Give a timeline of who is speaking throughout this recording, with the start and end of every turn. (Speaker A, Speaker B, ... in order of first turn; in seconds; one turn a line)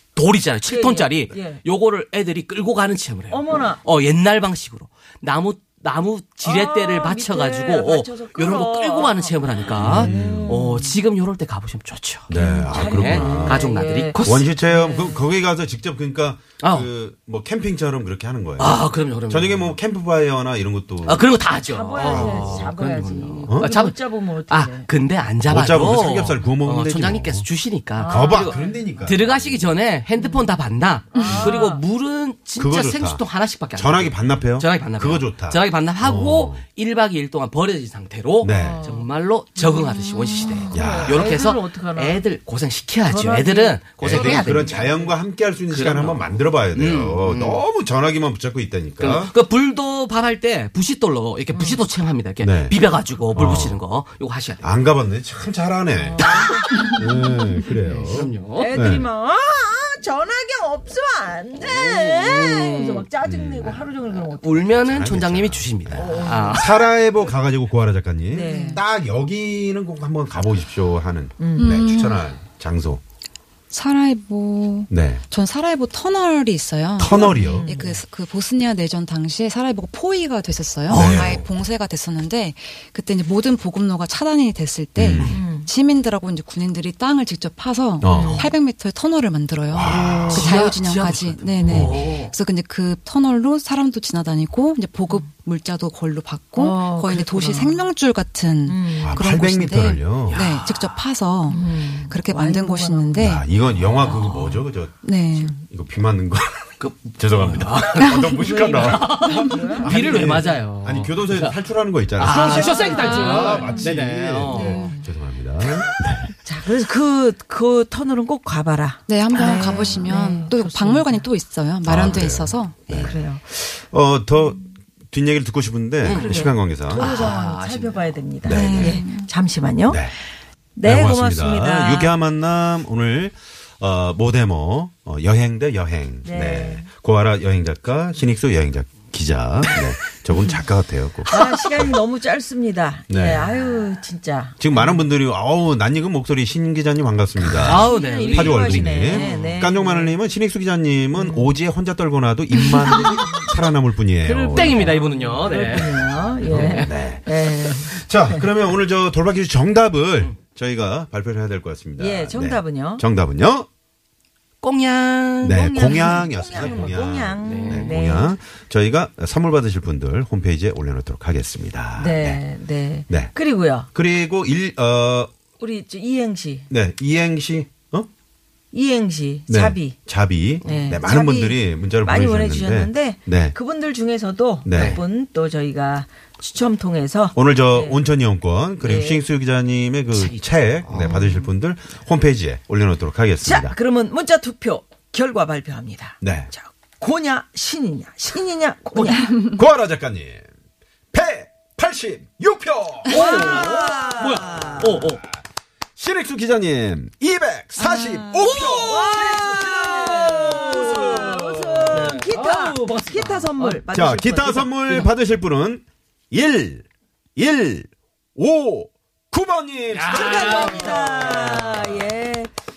Speaker A: 0.1-14.5
Speaker B: 0.7-1.6
Speaker B: 3.3-3.8
Speaker B: 6.4-10.9
Speaker C: 9.8-10.6
Speaker C: 12.3-13.7
Speaker B: 12.3-15.2
Speaker C: 14.2-21.3
Speaker A: 16.6-16.9
Speaker A: 18.6-19.7
Speaker A: 21.0-45.0
Speaker B: 21.6-24.9
Speaker C: 21.9-22.6
Speaker C: 23.5-23.7
Speaker C: 25.4-29.3
Speaker B: 28.0-28.8
Speaker B: 30.2-30.4
Speaker B: 31.1-31.8
Speaker C: 32.5-36.6
Speaker C: 38.4-38.9
Speaker B: 38.5-42.2
Speaker D: 40.2-40.6
Speaker C: 40.7-41.3
Speaker B: 43.0-45.1
Speaker C: 44.0-49.3
Speaker A: 45.7-47.6
Speaker A: 49.0-54.7
Speaker B: 51.5-51.8
Speaker C: 52.4-53.8
Speaker C: 54.6-59.1
Speaker B: 55.9-57.0
Speaker A: 56.2-56.6
Speaker A: 57.7-58.7
Speaker B: 58.5-64.7
Speaker A: 61.5-63.1
Speaker C: 63.2-64.0
Speaker A: 64.2-66.8
Speaker C: 64.7-73.0
Speaker B: 65.9-66.9
Speaker B: 68.3-68.8
Speaker D: 68.4-68.8
Speaker B: 71.4-71.7
Speaker D: 71.5-72.3
Speaker D: 73.7-103.5
Speaker C: 74.9-75.2
Speaker C: 77.0-77.7
Speaker B: 77.0-78.0
Speaker C: 80.9-81.4
Speaker A: 80.9-81.5
Speaker C: 85.0-85.4
Speaker B: 85.2-85.7
Speaker C: 88.0-88.5
Speaker B: 88.0-88.5
Speaker C: 89.7-90.5
Speaker A: 89.8-92.3
Speaker C: 91.6-92.1
Speaker B: 96.5-97.8
Speaker B: 98.7-99.2
Speaker C: 99.0-100.4
Speaker A: 100.3-101.0
Speaker B: 101.5-103.3
Speaker C: 103.2-105.0
Speaker A: 103.9-104.7
Speaker D: 105.0-105.6
Speaker C: 105.7-116.3
Speaker A: 106.8-108.2
Speaker D: 108.0-108.5
Speaker B: 108.3-110.4
Speaker A: 108.8-111.6
Speaker A: 112.2-114.8
Speaker B: 112.3-113.9
Speaker D: 112.6-113.8
Speaker D: 114.5-115.0
Speaker B: 116.4-121.2
Speaker D: 119.1-123.1
Speaker C: 121.8-127.4
Speaker B: 122.9-123.5
Speaker A: 126.0-128.2
Speaker B: 126.0-130.1
Speaker C: 128.4-129.0
Speaker D: 128.5-129.3
Speaker C: 129.9-130.1
Speaker B: 130.8-132.1
Speaker C: 130.8-142.0
Speaker B: 136.2-136.9
Speaker B: 141.3-145.1
Speaker C: 143.1-143.6
Speaker C: 144.6-155.0
Speaker A: 147.4-149.6
Speaker B: 147.6-150.2
Speaker B: 151.1-151.6
Speaker A: 152.6-153.1
Speaker B: 152.8-153.5
Speaker A: 154.2-157.0
Speaker B: 154.5-158.5
Speaker C: 155.8-163.7
Speaker B: 162.0-163.0
Speaker A: 164.6-168.0
Speaker C: 165.4-172.4
Speaker B: 165.4-168.4
Speaker B: 171.9-173.9
Speaker C: 173.1-173.3
Speaker C: 173.9-175.3
Speaker B: 175.6-176.7
Speaker C: 176.7-178.1
Speaker B: 178.7-180.0
Speaker C: 179.5-183.6
Speaker B: 180.6-188.0
Speaker A: 180.7-180.9
Speaker C: 184.7-185.0
Speaker A: 184.7-185.0
Speaker C: 187.3-193.8
Speaker B: 188.8-189.2
Speaker A: 190.1-191.4
Speaker B: 191.0-191.4
Speaker B: 193.4-199.4
Speaker C: 196.2-196.5
Speaker C: 199.3-200.4
Speaker C: 201.1-203.8
Speaker A: 203.1-205.2
Speaker B: 203.1-205.1
Speaker C: 206.0-212.1
Speaker B: 207.8-214.8
Speaker A: 208.4-211.2
Speaker A: 211.9-213.8
Speaker C: 213.9-221.9
Speaker A: 219.9-221.4
Speaker B: 220.1-222.5